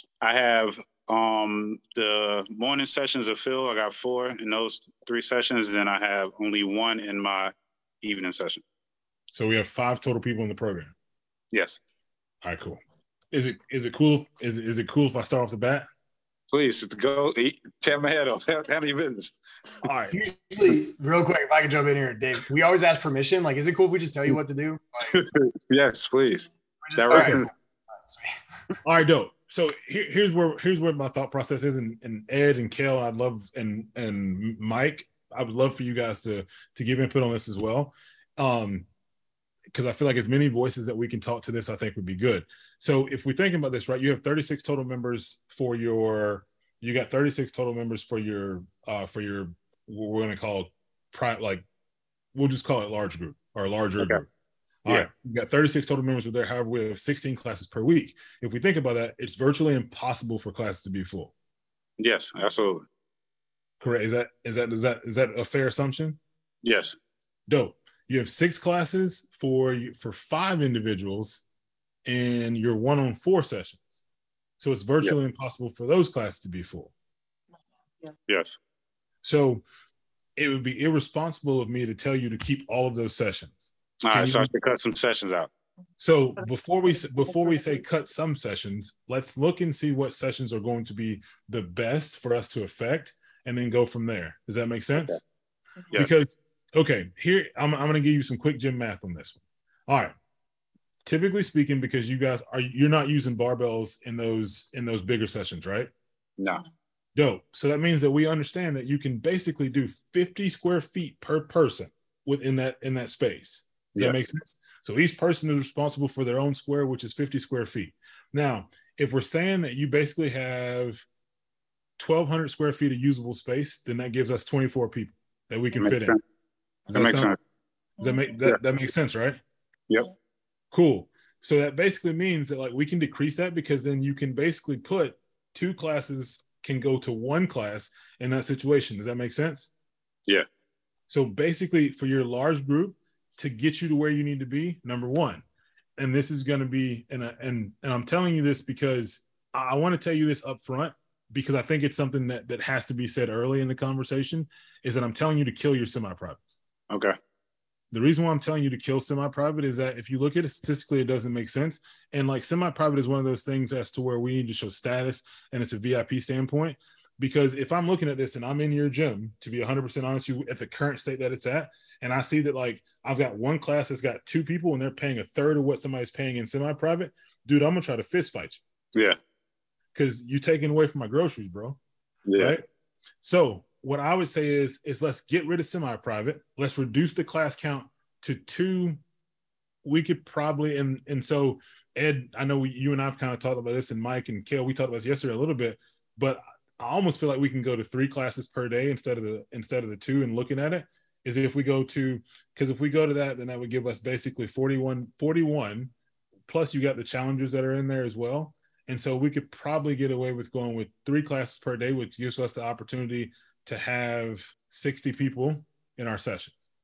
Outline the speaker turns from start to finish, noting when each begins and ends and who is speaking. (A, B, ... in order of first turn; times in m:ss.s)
0:00.2-0:08.6 A
0:09.3-0:10.9 B
0:11.5-0:11.8 A
0:12.4-0:12.8 B
0:13.3-0:15.9 B
0:16.5-0:19.3 A
0:19.8-0:20.2 B
0:20.1-0:25.2 C
0:25.1-0:27.5 A
0:26.8-0:28.3 C
0:27.1-0:27.4 B
0:28.8-0:38.9 B
0:39.7-0:51.6 B
0:52.3-0:54.3 B
0:54.8-1:01.3 B
1:02.0-1:02.8 A
1:03.8-1:06.2 B
1:06.6-1:07.0 A
1:07.5-1:11.4 B
1:12.0-1:14.0 B
1:14.6-1:16.9 B
1:18.3-1:18.6 A
1:19.2-1:19.6 B
1:20.4-1:24.5 B
1:24.0-1:25.5 A
1:26.0-1:35.2 B
1:35.9-1:40.2 B
1:41.0-1:45.9 B
1:47.1-2:01.0 B
2:02.0-2:06.2 B
2:05.8-2:06.2 A
2:06.9-2:07.3 B
2:06.9-2:07.4 A
2:08.0-2:09.4 B
2:10.7-2:19.7 B
2:21.1-2:25.4 B
2:26.0-2:36.6 B
2:36.9-2:37.2 A
2:37.9-2:58.6 B
2:59.9-3:01.8 B
3:02.3-3:02.6 A
3:02.4-3:02.6 B
3:03.2-3:09.0 B
3:09.8-3:25.9 B
3:26.5-3:36.6 B